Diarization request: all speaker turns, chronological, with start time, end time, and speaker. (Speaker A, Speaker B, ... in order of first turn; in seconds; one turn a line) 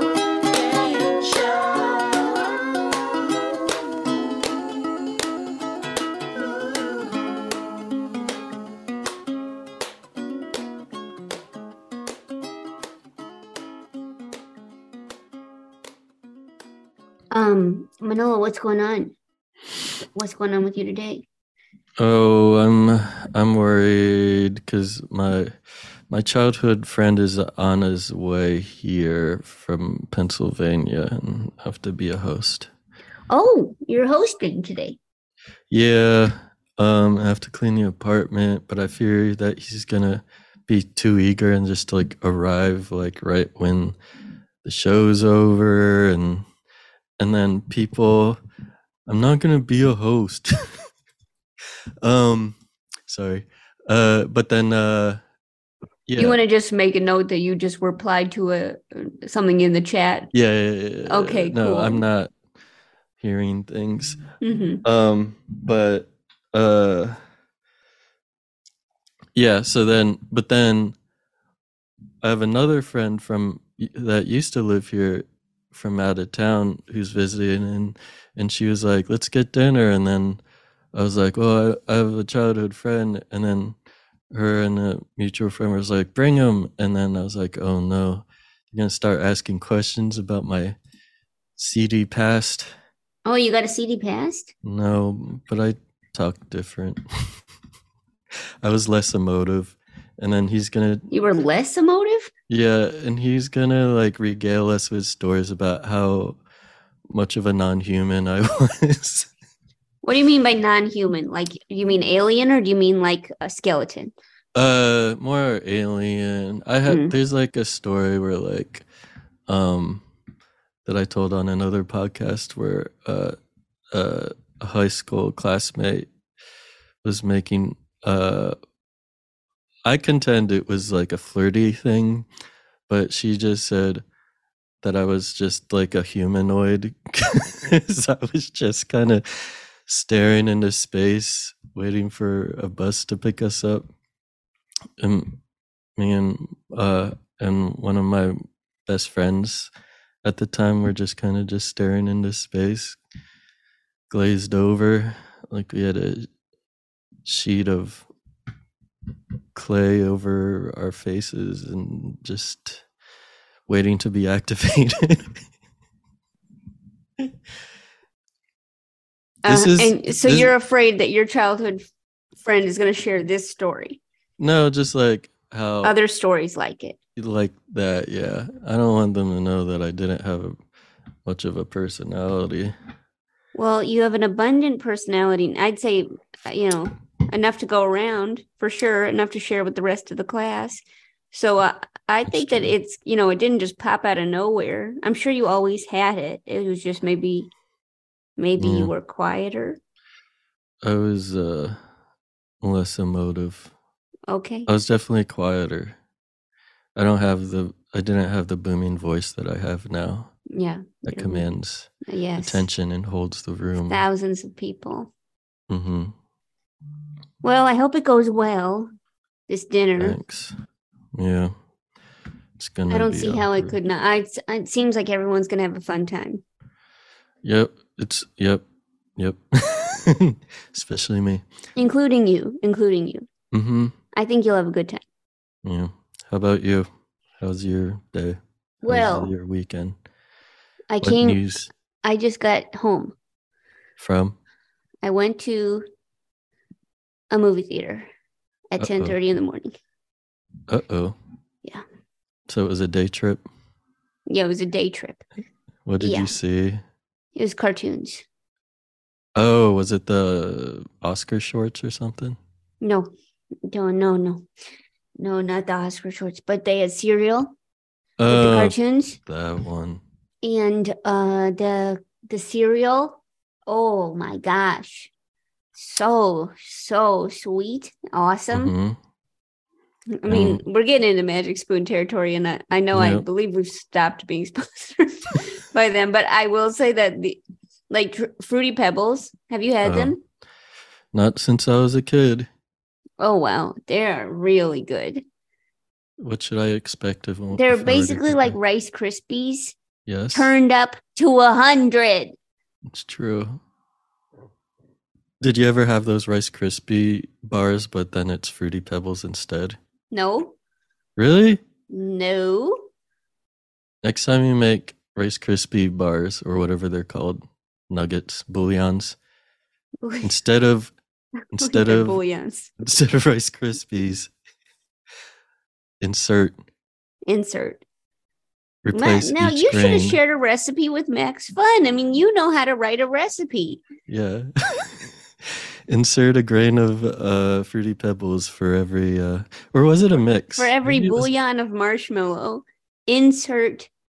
Speaker A: 0.5-2.8
Speaker B: 17.3-19.1
Speaker B: 20.2-21.2
Speaker C: 22.0-25.6
Speaker C: 26.1-32.7
Speaker B: 33.3-35.0
Speaker C: 35.7-44.0
Speaker C: 44.6-46.5
Speaker C: 47.2-48.4
Speaker C: 49.1-50.9
Speaker C: 52.0-52.6
Speaker C: 53.1-55.2
Speaker C: 56.1-56.4
Speaker B: 56.2-60.3
Speaker C: 60.3-62.3
Speaker B: 61.1-62.0
Speaker C: 63.2-64.2
Speaker B: 64.4-64.8
Speaker C: 64.8-67.2
Speaker C: 69.3-71.0
Speaker C: 72.2-80.4
Speaker C: 80.9-83.8
Speaker C: 84.3-90.8
Speaker C: 91.6-92.7
Speaker B: 93.2-94.5
Speaker C: 94.6-97.3
Speaker C: 98.6-101.1
Speaker B: 101.1-102.3
Speaker C: 102.5-106.4
Speaker C: 107.1-109.3
Speaker B: 110.0-114.1
Speaker C: 114.5-118.9
Speaker B: 116.9-117.2
Speaker C: 119.5-120.0
Speaker C: 120.8-123.4
Speaker C: 123.9-126.1
Speaker C: 127.0-128.6
Speaker C: 129.8-132.3
Speaker C: 132.9-134.0
Speaker C: 134.8-143.9
Speaker C: 145.0-145.4
Speaker C: 146.0-149.7
Speaker C: 150.2-153.0
Speaker C: 154.1-156.3
Speaker C: 157.2-158.1
Speaker C: 159.5-162.8
Speaker C: 163.7-165.4
Speaker B: 169.4-171.8
Speaker C: 169.5-170.5
Speaker B: 172.4-174.0
Speaker C: 174.4-175.9
Speaker B: 175.8-177.0
Speaker C: 177.2-180.6
Speaker C: 181.2-182.8
Speaker B: 183.6-197.5
Speaker C: 192.3-192.7
Speaker B: 198.4-199.8
Speaker C: 198.6-198.9
Speaker C: 200.8-201.8
Speaker C: 202.6-203.7
Speaker B: 204.3-204.7
Speaker C: 204.7-206.0
Speaker C: 207.0-210.3
Speaker B: 210.5-211.5
Speaker C: 211.1-214.0
Speaker B: 212.1-212.6
Speaker B: 213.9-215.1
Speaker C: 215.7-216.2
Speaker B: 217.4-218.9
Speaker B: 219.5-220.2
Speaker C: 220.0-220.6
Speaker C: 221.1-221.5
Speaker C: 222.6-223.8
Speaker B: 222.9-226.4
Speaker C: 227.4-228.6
Speaker C: 229.2-231.4
Speaker B: 231.8-233.3
Speaker C: 233.5-233.9
Speaker B: 234.2-235.0
Speaker C: 235.6-240.0
Speaker B: 238.8-239.3
Speaker B: 240.9-241.4
Speaker C: 241.0-241.7
Speaker B: 242.0-243.2
Speaker C: 244.0-244.4
Speaker B: 245.0-245.8
Speaker B: 247.3-248.1
Speaker B: 248.7-249.7
Speaker C: 248.8-249.2
Speaker C: 250.7-251.2
Speaker C: 252.5-253.4
Speaker B: 254.3-255.2
Speaker C: 255.9-256.8
Speaker B: 256.0-256.3
Speaker B: 257.4-258.2
Speaker C: 259.4-262.4
Speaker B: 262.8-263.1
Speaker B: 263.7-264.5
Speaker B: 265.2-267.5
Speaker C: 268.2-270.0
Speaker B: 268.3-269.2
Speaker B: 270.4-275.1
Speaker B: 275.8-278.7
Speaker C: 278.5-279.0
Speaker B: 280.2-290.2
Speaker C: 280.3-280.6
Speaker C: 282.9-283.2
Speaker C: 289.8-290.1
Speaker C: 291.1-292.5
Speaker B: 293.2-295.2
Speaker C: 296.2-298.6
Speaker B: 297.5-299.8
Speaker C: 300.1-300.5
Speaker B: 300.3-302.4
Speaker C: 302.9-303.6
Speaker C: 305.4-309.8
Speaker B: 310.1-310.6
Speaker C: 311.2-311.6
Speaker B: 311.9-312.9
Speaker C: 314.0-319.2
Speaker B: 320.0-320.3
Speaker C: 320.2-320.9
Speaker C: 321.5-322.2
Speaker B: 321.6-322.7
Speaker C: 322.8-324.3
Speaker C: 326.0-326.6
Speaker B: 327.3-327.8
Speaker C: 328.9-330.2
Speaker B: 328.9-333.8
Speaker C: 334.1-341.3
Speaker B: 340.6-343.9